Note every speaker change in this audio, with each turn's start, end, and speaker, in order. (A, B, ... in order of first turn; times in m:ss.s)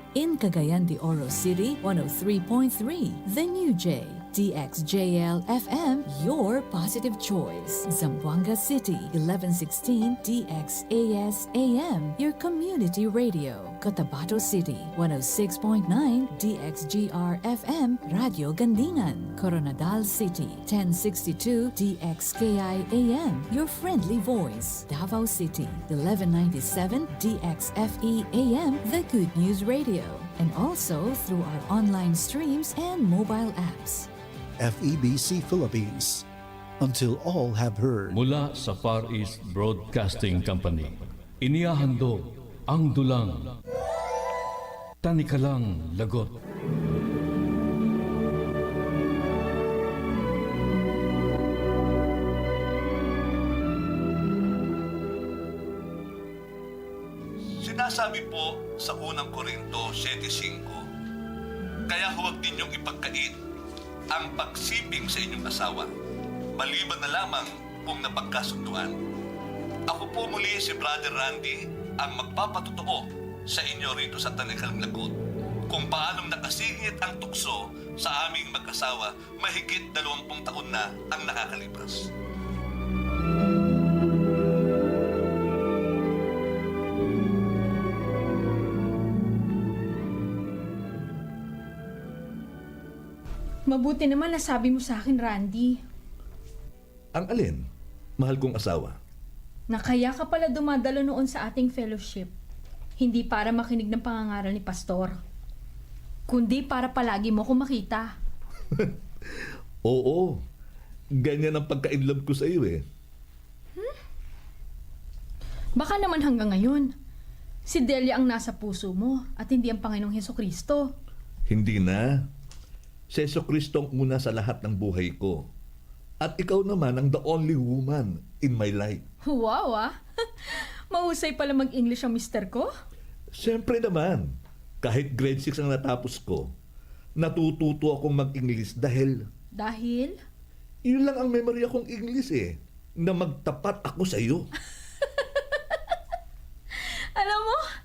0:00.1-0:34.1 A
0:34.6-0:36.2 B
0:36.8-0:38.2 B
0:38.1-0:43.6 C
0:45.0-0:46.3 C
0:57.6-1:00.9 D
1:01.9-1:03.4 D
1:04.1-1:05.9 D
1:06.6-1:09.0 D
1:09.9-1:15.2 D
1:15.7-1:22.1 D
1:33.7-1:35.8 E
1:37.1-1:37.6 D
1:38.2-1:39.0 D
1:39.7-1:42.3 E
1:43.0-1:45.2 E
1:46.3-1:48.1 E
1:49.8-1:50.4 D
1:51.2-1:52.8 D
1:55.8-1:56.9 E
1:57.6-2:00.9 E
2:01.5-2:02.2 D
2:03.1-2:05.4 D
2:06.2-2:09.0 D
2:09.2-2:12.7 E
2:13.4-2:14.3 D
2:14.8-2:16.5 D
2:17.2-2:19.2 D
2:19.5-2:20.2 E
2:20.8-2:24.4 D
2:25.0-2:25.9 E
2:26.7-2:27.6 E